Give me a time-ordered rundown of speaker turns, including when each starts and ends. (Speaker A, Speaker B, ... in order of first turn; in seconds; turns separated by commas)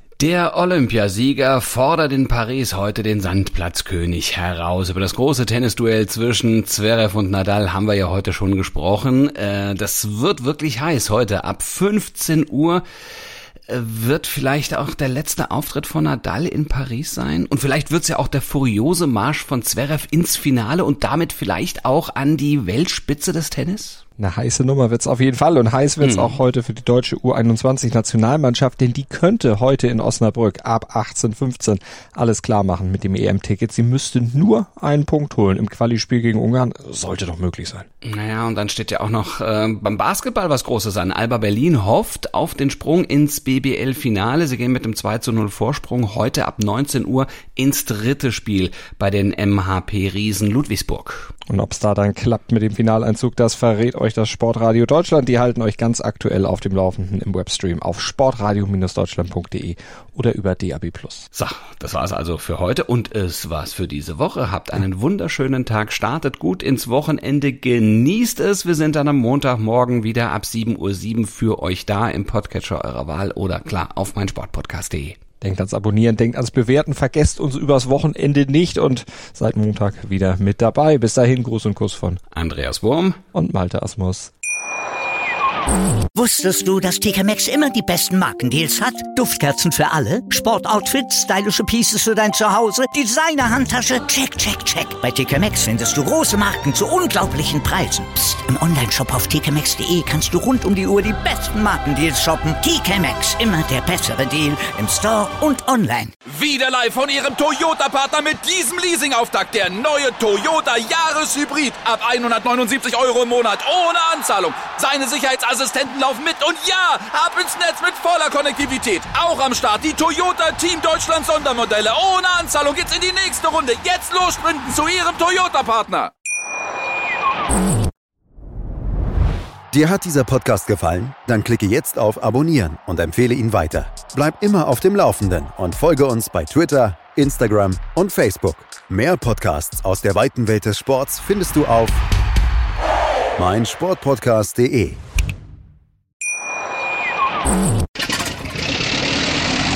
Speaker A: 0.2-12.8, Speaker A: 13.7-24.0, Speaker B: 24.2-37.9, Speaker A: 26.0-26.4, Speaker A: 38.0-51.3, Speaker B: 51.5-61.3, Speaker A: 61.3-75.2, Speaker B: 75.4-82.2, Speaker A: 82.3-83.2, Speaker B: 83.3-84.3, Speaker C: 86.2-106.1, Speaker D: 106.3-126.1, Speaker E: 129.7-142.0, Speaker E: 143.4-145.0